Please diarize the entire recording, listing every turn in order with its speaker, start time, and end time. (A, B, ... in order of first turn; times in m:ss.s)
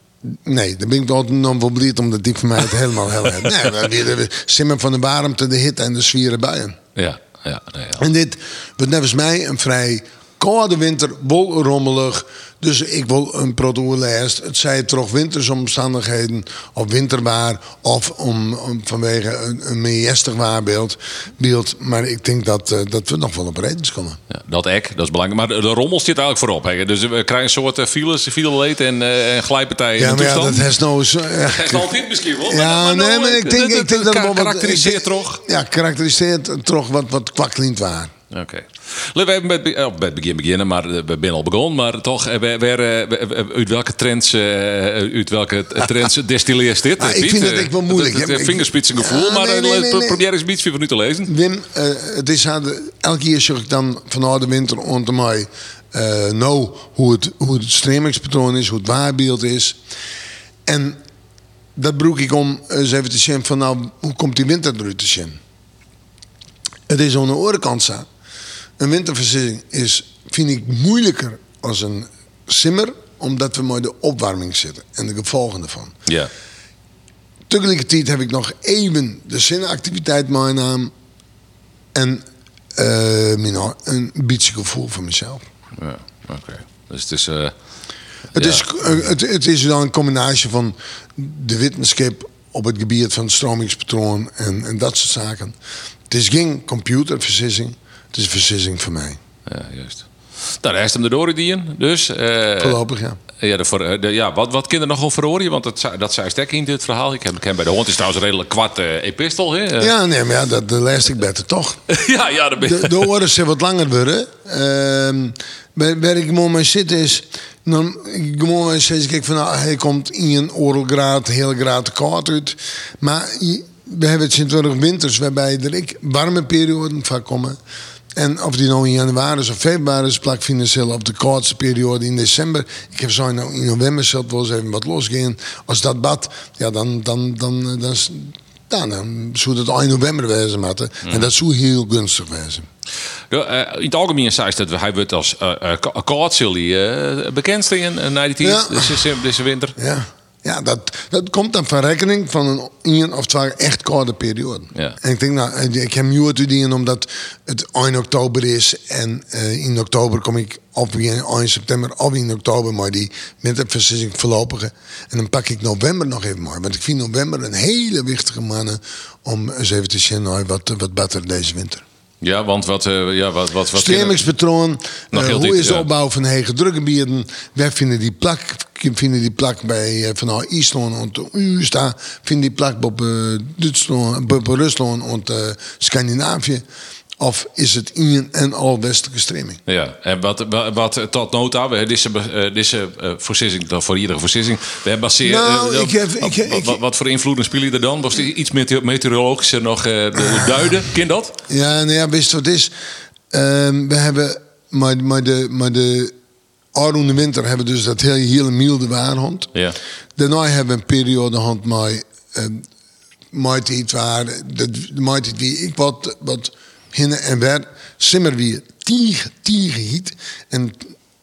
0:00.4-0:06.8 A
0:07.0-0:08.0 B
0:08.0-0:24.2 A
0:24.3-0:30.7 B
0:30.0-0:38.1 A
0:31.4-0:35.4 B
0:38.3-0:51.3 B
0:47.0-0:50.2 A
0:51.3-0:59.8 A
1:00.7-1:01.0 A
1:01.8-1:05.4 A
1:06.9-1:08.0 A
1:08.8-1:16.0 A
1:17.5-1:20.9 A
1:22.0-1:22.2 A
1:22.8-1:25.4 A
1:25.8-1:27.5 B
1:28.3-1:28.7 B
1:28.3-1:35.6 A
1:36.1-1:39.2 A
1:39.5-1:42.8 B
1:42.6-1:43.2 A
1:43.4-1:49.9 B
1:49.8-1:51.8 A
1:51.9-1:53.1 B
1:52.6-2:07.6 A
2:08.2-2:22.7 A
2:23.3-2:29.8 B
2:28.4-2:29.0 A
2:29.8-2:51.8 A
2:52.2-2:54.2 B
2:53.7-3:06.6 A
2:55.1-2:55.9 B
3:07.2-3:09.6 A
3:09.7-3:21.4 B
3:15.2-3:16.8 A
3:21.5-3:22.7 A
3:23.3-3:26.1 A
3:26.7-3:29.5 A
3:30.2-3:32.6 A
3:33.3-3:40.9 A